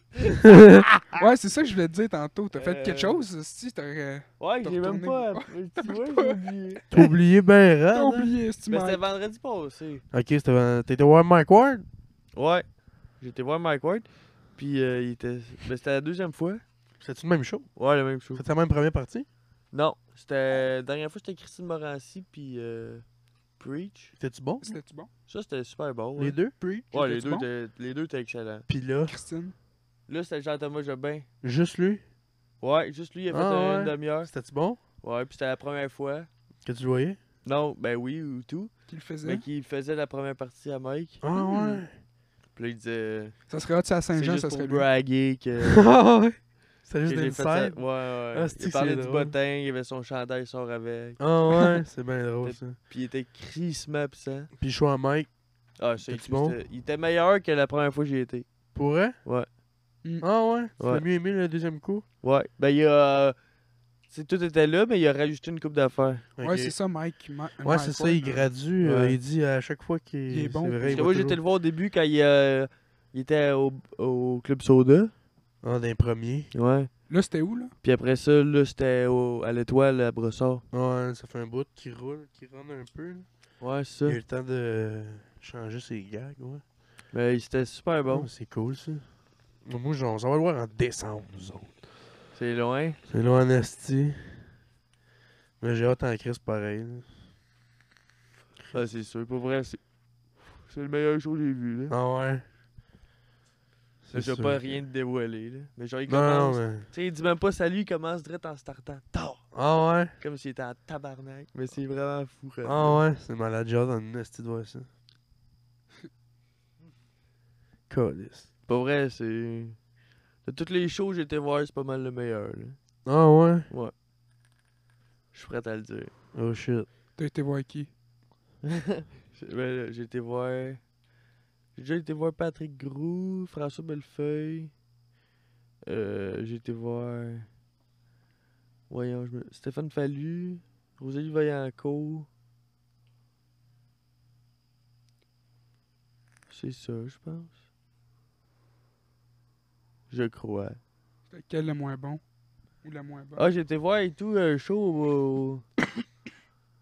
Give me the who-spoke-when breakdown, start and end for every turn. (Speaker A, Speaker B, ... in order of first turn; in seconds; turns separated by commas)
Speaker A: 0.3-0.8, Speaker B: 1.1-6.4, Speaker C: 2.5-3.2, Speaker C: 4.4-6.8, Speaker A: 6.9-8.3, Speaker B: 7.9-9.0, Speaker C: 8.7-10.0, Speaker A: 10.1-11.8, Speaker C: 12.3-16.6, Speaker A: 17.0-17.7, Speaker C: 17.8-18.4, Speaker A: 18.3-19.2, Speaker C: 19.7-23.0, Speaker C: 23.6-24.1, Speaker A: 24.2-24.8, Speaker B: 24.6-25.1, Speaker C: 25.3-26.4, Speaker A: 26.2-26.9, Speaker C: 26.9-28.6, Speaker B: 26.9-27.5, Speaker A: 28.7-29.1, Speaker B: 29.1-29.5, Speaker C: 30.1-31.3, Speaker A: 31.4-32.0, Speaker C: 32.6-34.3, Speaker A: 33.3-34.8, Speaker C: 35.0-36.3, Speaker A: 36.6-37.2, Speaker C: 37.4-38.7, Speaker B: 38.9-39.4, Speaker C: 39.2-41.2, Speaker A: 41.2-41.9, Speaker B: 41.3-41.8, Speaker C: 42.5-43.4, Speaker B: 43.5-44.8, Speaker C: 44.1-45.9, Speaker A: 45.6-49.3, Speaker C: 47.0-51.7, Speaker A: 51.2-52.8, Speaker C: 52.4-54.5, Speaker A: 54.6-55.3, Speaker C: 55.8-58.5, Speaker A: 56.0-56.5, Speaker A: 58.7-59.2, Speaker C: 59.2-59.5, Speaker A: 60.2-62.0, Speaker C: 60.8-61.0, Speaker C: 62.2-63.4, Speaker C: 64.1-66.2, Speaker A: 66.4-66.7, Speaker B: 66.4-68.5, Speaker A: 67.6-71.4, Speaker C: 68.8-69.2, Speaker B: 70.3-71.1, Speaker C: 70.8-75.1, Speaker A: 75.6-76.5, Speaker C: 76.5-76.9, Speaker B: 77.1-77.7, Speaker C: 77.8-80.6, Speaker A: 80.7-83.3, Speaker C: 83.6-84.2, Speaker A: 84.0-86.6, Speaker C: 87.1-88.3, Speaker A: 88.1-89.0, Speaker A: 89.6-91.7, Speaker C: 92.3-93.0, Speaker A: 93.1-94.2, Speaker A: 95.6-97.1, Speaker C: 98.7-99.8, Speaker C: 100.5-102.0, Speaker A: 101.9-102.4, Speaker A: 104.0-104.8, Speaker C: 104.1-109.5, Speaker A: 106.1-106.9, Speaker A: 109.5-110.1, Speaker C: 110.2-113.0, Speaker A: 112.6-114.9, Speaker A: 117.9-118.5, Speaker C: 118.7-119.8, Speaker C: 120.4-122.8, Speaker A: 123.0-123.7, Speaker C: 125.3-126.1, Speaker A: 126.3-126.9, Speaker B: 127.2-127.9, Speaker C: 128.7-130.8, Speaker C: 131.7-134.7, Speaker C: 135.8-137.5, Speaker C: 138.9-142.3, Speaker C: 146.5-147.5, Speaker C: 150.1-150.8, Speaker B: 151.3-152.2, Speaker B: 152.8-153.4, Speaker C: 153.3-155.6